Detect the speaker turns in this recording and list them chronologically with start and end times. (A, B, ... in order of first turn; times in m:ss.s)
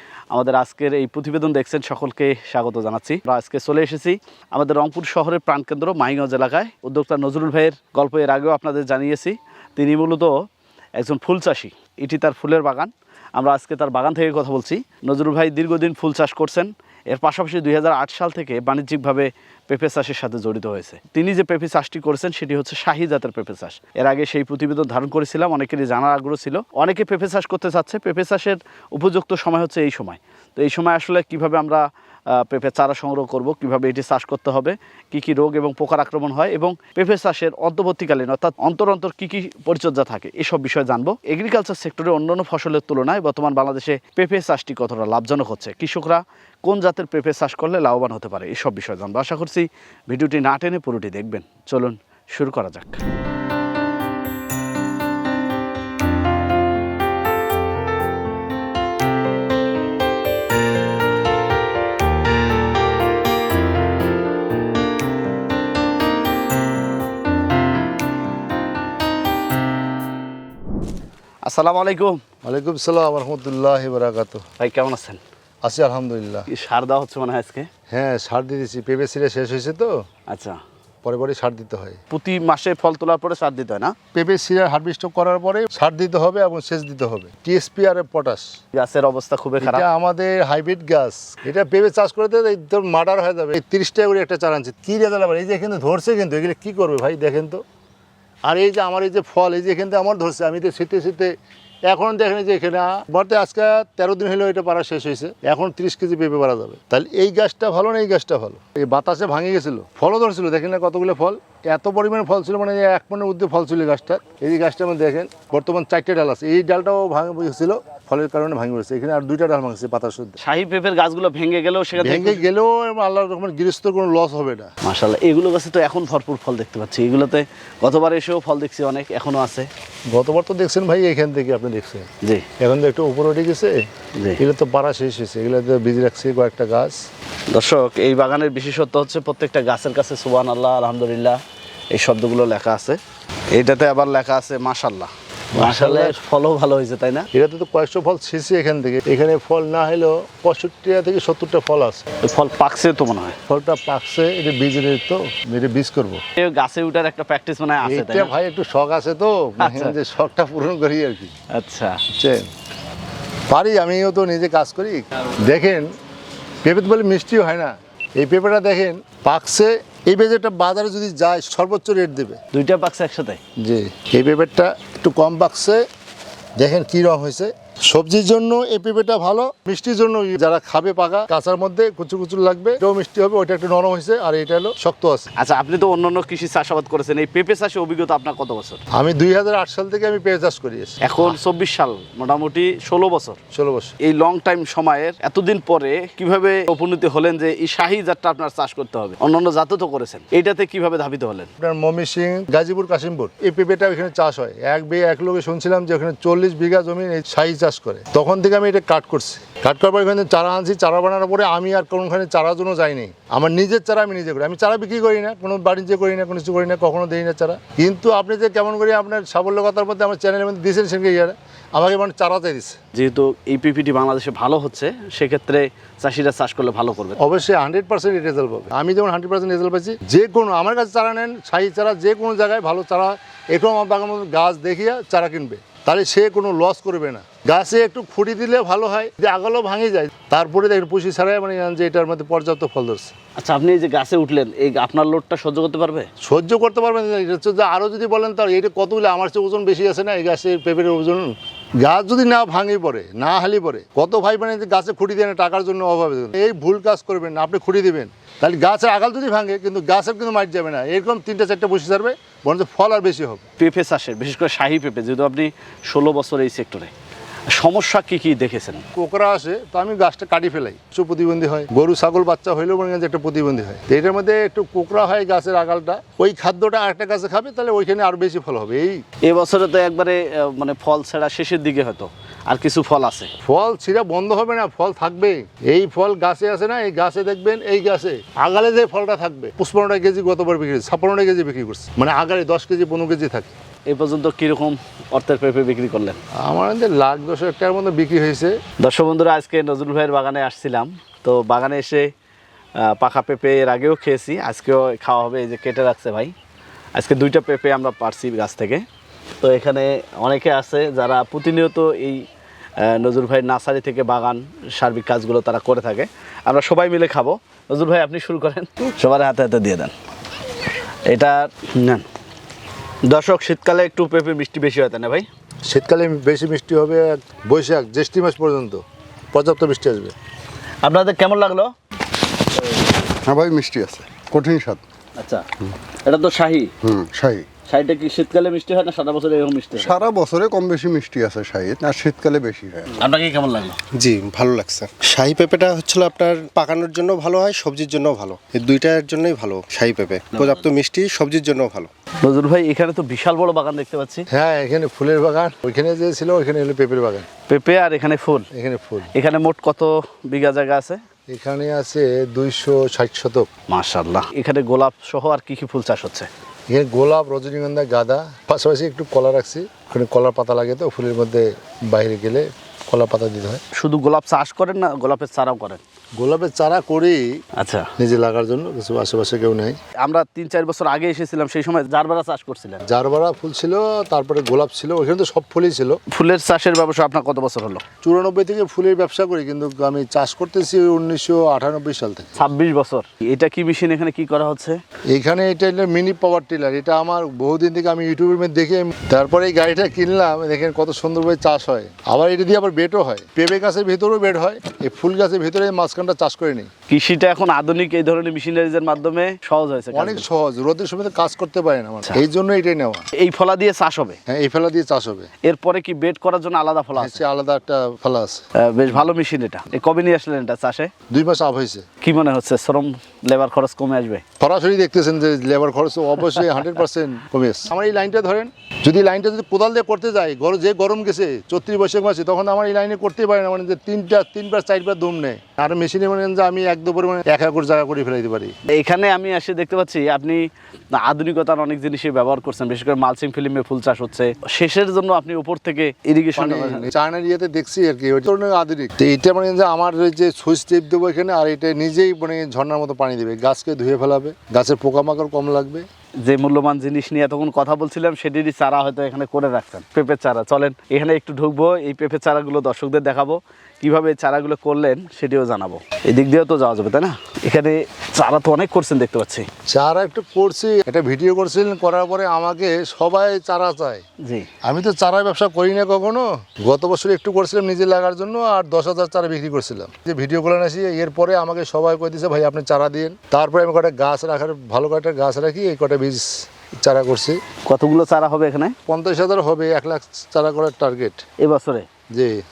0:00.3-0:10.4 A
0:11.0-0:53.0 A
1:11.4-1:12.2 A
1:12.4-1:14.4 B
1:14.6-1:15.2 A
1:15.6-1:16.5 B
1:16.5-1:17.7 A
1:17.9-1:20.0 B
1:20.3-1:20.6 A
1:21.0-1:22.0 B
1:22.1-1:23.9 A
1:24.1-1:28.5 B
1:28.7-1:29.8 A
1:29.6-1:37.6 B
1:38.5-1:41.3 B
1:41.9-2:00.4 B
2:00.4-2:02.4 A
2:02.0-2:04.7 B
2:04.8-2:09.7 A
2:10.1-2:12.1 B
2:12.2-2:12.5 A
2:12.6-2:13.8 B
2:14.4-2:17.0 B
2:17.5-2:21.4 A
2:21.9-2:23.0 A
2:23.5-2:27.3 A
2:25.5-2:26.2 B
2:27.3-2:32.0 B
2:32.2-2:33.4 A
2:33.5-2:36.2 B
2:36.4-2:38.3 A
2:37.8-2:41.3 B
2:39.6-2:40.0 A
2:41.5-2:42.0 A
2:42.1-2:42.5 B
2:43.5-2:45.9 B
2:46.6-2:52.4 B
2:52.5-2:53.4 A
2:53.6-2:55.8 B
2:56.6-3:05.3 B
3:05.4-3:08.8 A
3:08.9-3:11.4 B
3:11.0-3:13.4 A
3:13.5-3:13.9 B
3:14.0-3:21.5 A
3:21.6-3:42.8 B
3:42.9-3:47.2 A
3:47.2-4:03.1 B
4:03.4-4:06.1 A
4:06.2-4:23.4 B
4:23.6-4:26.9 A
4:27.5-4:28.8 A
4:29.0-4:39.0 B
4:39.2-4:43.3 A
4:43.4-4:53.6 B
4:53.9-4:56.2 A
4:56.4-4:58.6 B
4:58.8-5:02.1 A
5:02.8-5:06.3 A
5:07.0-5:08.8 A
5:09.4-5:12.2 A
5:12.8-5:19.9 A
5:21.1-5:22.1 A
5:23.1-5:25.3 A
5:25.7-5:30.1 B
5:30.8-5:31.7 A
5:33.3-5:34.8 C
5:33.9-5:34.3 D
5:35.2-5:35.4 A
5:36.0-5:36.7 A
5:36.8-5:37.4 D
5:37.7-5:40.0 A
5:39.8-5:42.9 C
5:41.7-5:42.4 D
5:43.0-5:43.8 A
5:43.9-5:51.9 D
5:52.2-5:54.2 A
5:54.3-5:57.3 B
5:57.5-5:58.5 A
5:58.5-5:59.1 B
5:59.1-6:01.0 A
6:01.3-6:03.5 B
6:03.7-6:06.3 A
6:06.7-6:13.6 B
6:13.8-6:15.8 A
6:16.2-6:17.2 B
6:17.6-6:17.9 A
6:18.0-6:19.8 B
6:20.0-6:22.8 A
6:22.9-6:26.0 B
6:26.1-6:27.8 A
6:28.0-6:32.3 B
6:32.4-6:34.8 A
6:35.1-6:46.7 B
6:46.9-6:50.3 A
6:49.9-6:53.1 B
6:53.1-6:54.2 A
6:54.3-6:55.3 B
6:55.4-6:57.2 A
6:57.0-6:58.4 B
6:58.6-7:00.9 A
7:01.1-7:01.8 B
7:02.0-7:04.2 A
7:04.4-7:18.5 B
7:18.7-7:26.9 A
7:26.4-7:35.8 B
7:36.2-7:49.5 A
7:49.7-7:54.0 B
7:54.2-7:54.5 A
7:54.6-8:07.4 B
8:07.7-8:08.8 A
8:08.9-8:11.2 B
8:11.4-8:11.9 A
8:12.1-8:12.4 B